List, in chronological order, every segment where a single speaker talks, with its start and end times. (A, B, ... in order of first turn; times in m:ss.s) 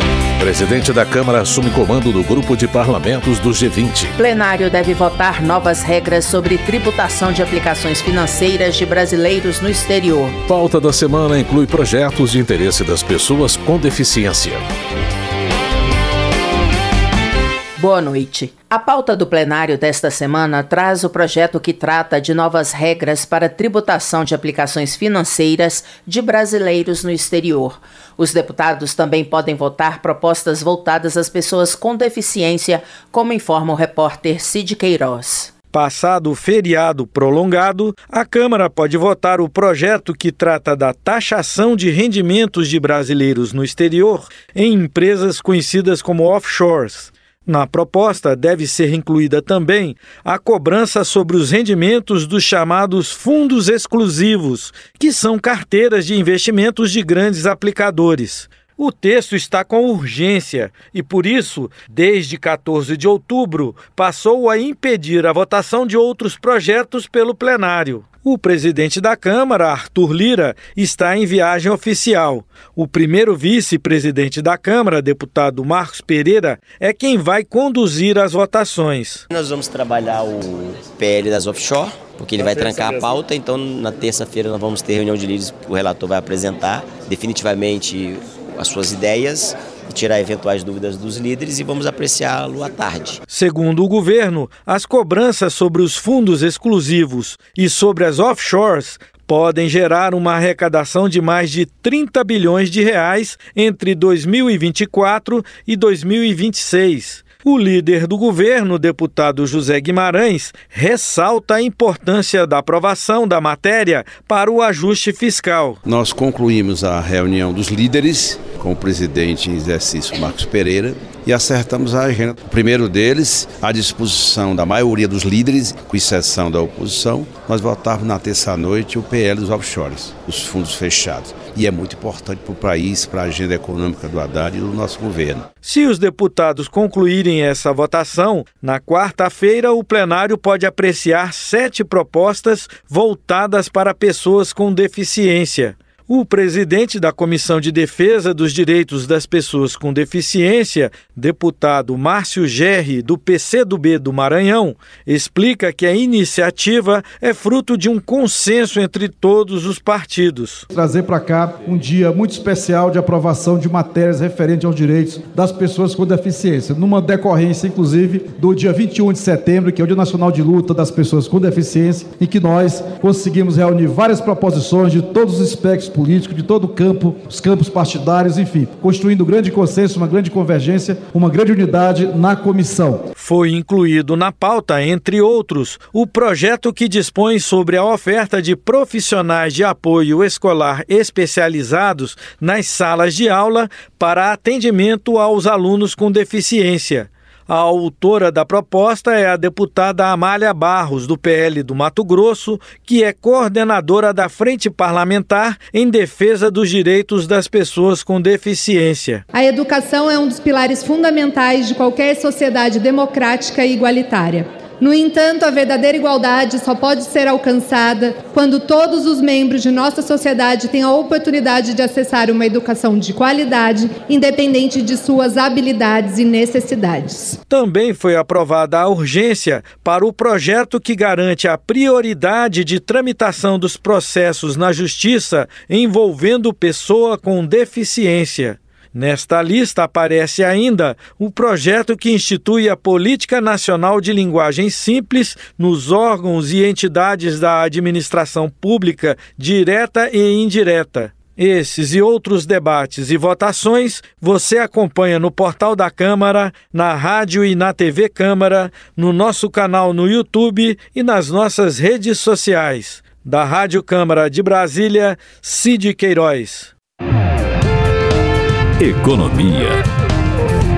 0:00.4-0:04.2 A
0:04.2-0:10.4 B
0:10.5-0:14.6 A
0:17.8-0:35.5 B
0:35.7-1:19.2 C
1:19.3-1:33.2 D
1:33.3-1:55.8 C
1:55.8-2:15.5 E
2:15.6-2:40.7 C
2:40.7-3:03.0 F
3:03.2-3:29.2 C
3:29.3-3:47.4 G
3:47.5-4:26.7 C